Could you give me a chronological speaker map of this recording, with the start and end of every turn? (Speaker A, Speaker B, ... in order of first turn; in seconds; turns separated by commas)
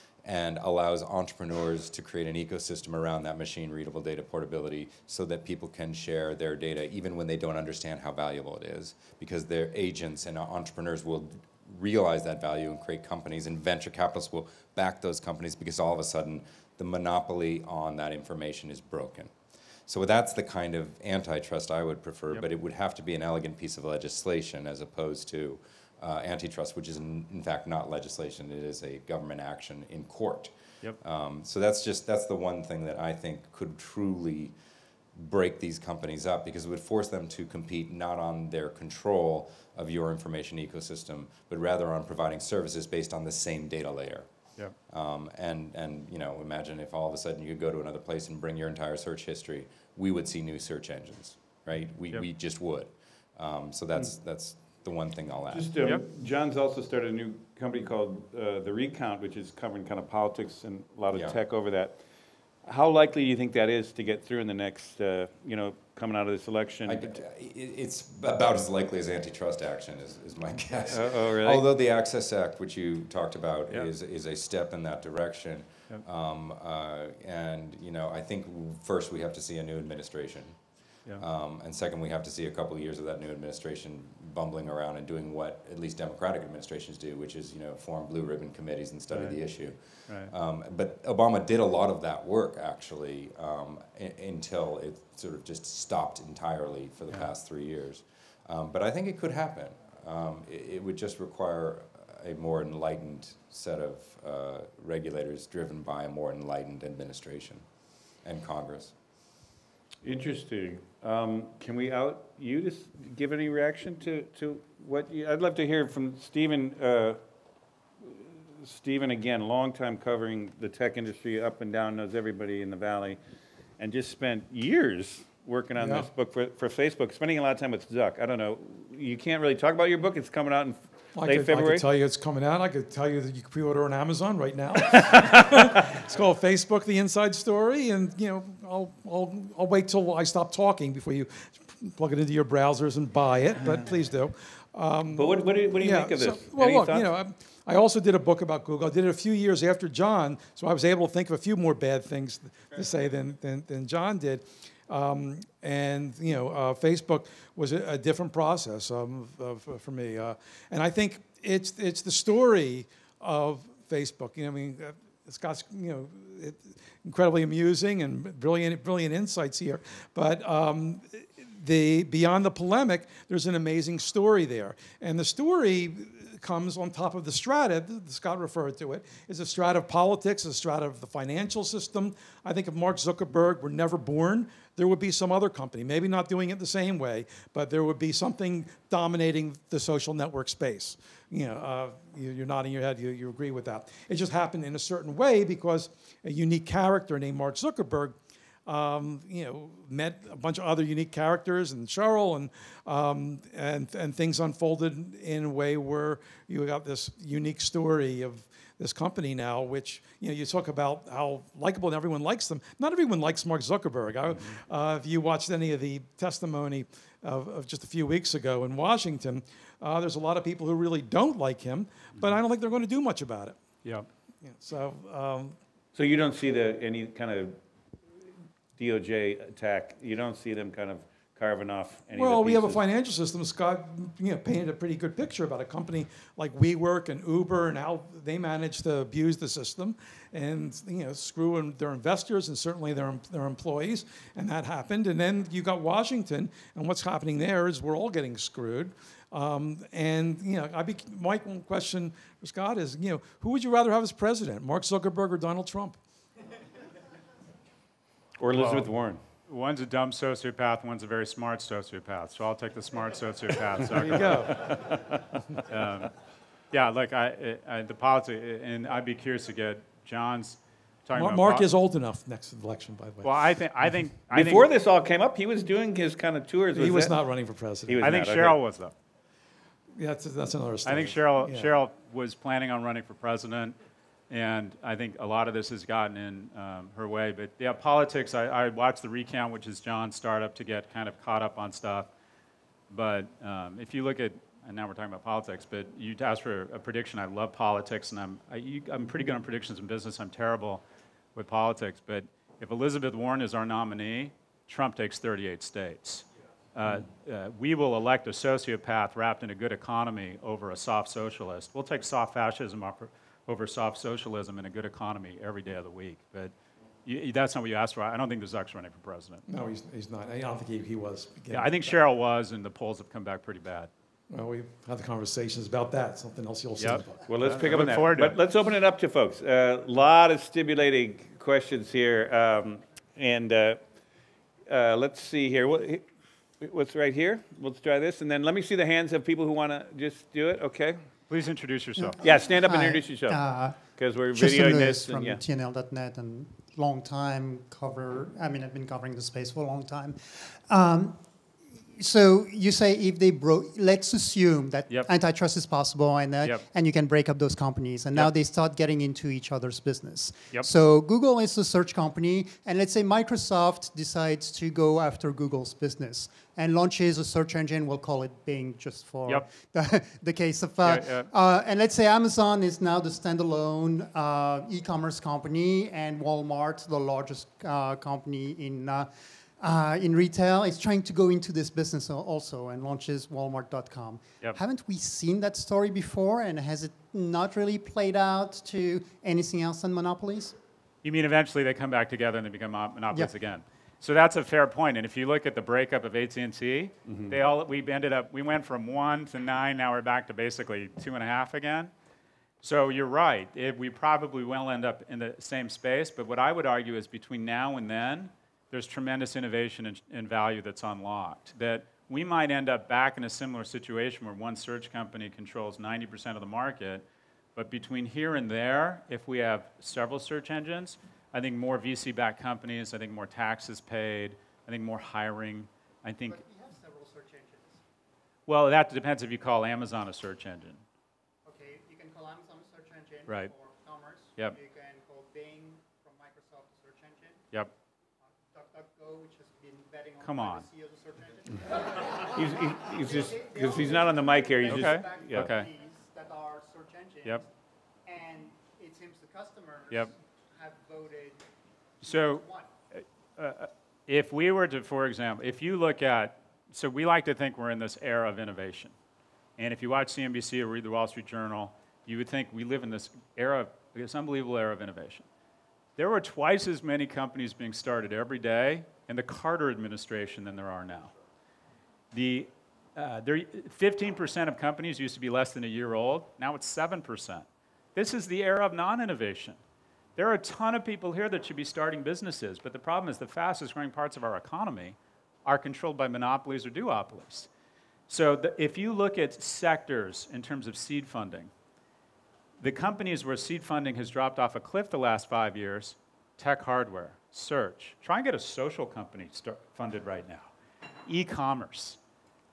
Speaker A: 0.2-19.3, Speaker A: 19.9-34.5, Speaker A: 35.1-44.3, Speaker A: 44.9-55.7, Speaker B: 55.5-62.0, Speaker B: 62.6-67.2, Speaker A: 66.9-80.5, Speaker B: 70.9-71.6, Speaker A: 81.2-107.6, Speaker C: 89.1-89.4, Speaker A: 108.2-108.9, Speaker B: 110.0-117.2, Speaker B: 118.1-123.2, Speaker B: 123.8-131.8, Speaker D: 125.8-126.1, Speaker D: 131.2-223.6, Speaker B: 134.9-135.9, Speaker B: 143.6-143.9, Speaker B: 145.1-147.1, Speaker D: 224.4-225.6, Speaker B: 225.9-227.6, Speaker B: 228.8-232.8, Speaker D: 232.1-256.0, Speaker B: 258.4-259.2, Speaker C: 258.6-258.9, Speaker C: 259.5-264.9, Speaker D: 263.9-264.9, Speaker C: 265.7-266.1, Speaker C: 266.7-271.7, Speaker D: 271.1-273.4, Speaker C: 273.2-274.7, Speaker B: 274.3-277.2, Speaker D: 276.7-278.2, Speaker B: 277.9-278.6, Speaker C: 278.0-278.9, Speaker D: 279.9-281.7, Speaker C: 280.8-283.7, Speaker C: 284.3-292.1, Speaker C: 292.9-300.8, Speaker C: 301.3-316.5, Speaker C: 317.1-319.4, Speaker D: 319.5-321.8, Speaker C: 321.5-323.9, Speaker D: 324.3-327.2, Speaker C: 326.8-328.4, Speaker B: 327.3-333.8, Speaker B: 334.7-336.1, Speaker B: 336.6-341.0, Speaker C: 341.3-342.2, Speaker E: 342.0-351.2, Speaker B: 342.2-345.4, Speaker E: 351.9-390.6, Speaker C: 370.8-371.3, Speaker C: 391.0-401.9, Speaker B: 397.1-397.4, Speaker C: 402.6-426.4, Speaker E: 426.3-427.8, Speaker C: 428.5-430.8, Speaker E: 431.4-437.4, Speaker C: 433.3-433.5, Speaker E: 438.5-447.5, Speaker C: 440.2-440.6, Speaker B: 442.3-445.5, Speaker C: 444.7-445.7, Speaker E: 448.1-451.4, Speaker E: 452.0-452.7, Speaker C: 452.0-458.9, Speaker C: 459.6-465.3, Speaker C: 466.0-471.1, Speaker C: 472.1-479.6, Speaker C: 480.2-487.5, Speaker C: 488.1-491.5, Speaker C: 492.6-500.5, Speaker C: 501.1-502.0